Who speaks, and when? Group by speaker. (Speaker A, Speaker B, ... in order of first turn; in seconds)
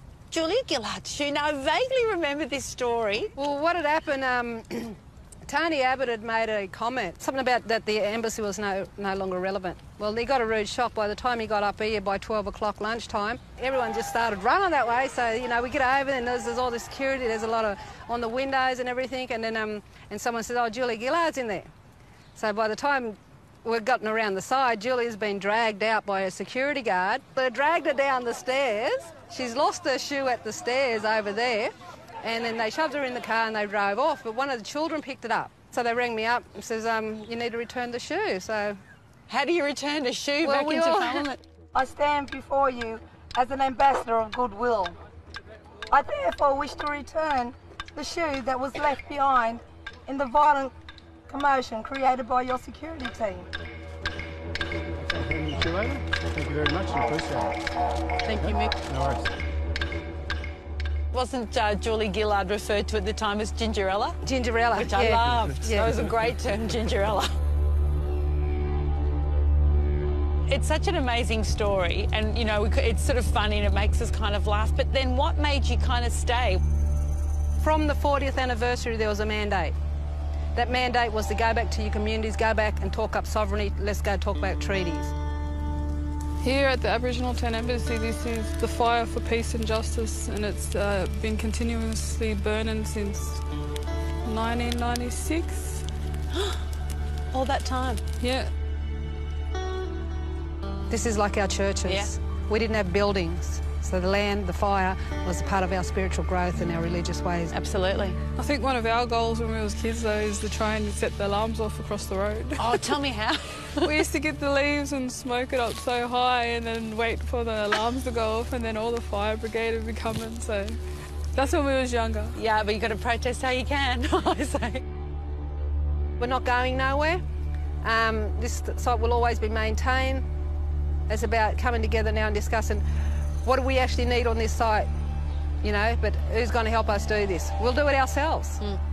Speaker A: 0.3-3.3, 39.3-41.4, 61.1-64.2, 64.8-67.3, 70.5-76.6, 97.3-98.0, 101.8-102.1, 107.5-108.2, 112.6-113.9, 122.3-124.8
Speaker B: 3.4-21.7, 22.4-38.8, 40.4-41.3, 58.2-58.8, 64.2-66.0, 77.6-79.8, 80.5-85.1, 100.9-107.5, 126.2-127.2, 127.8-130.2, 131.1-132.8, 133.4-134.9, 135.6-138.6
Speaker C: 41.7-45.0, 45.9-50.7, 51.3-53.5
Speaker D: 55.1-57.6, 58.9-59.3
Speaker E: 86.4-93.4, 94.2-95.8, 98.2-98.5, 108.4-112.9, 113.8-120.8, 121.3-122.4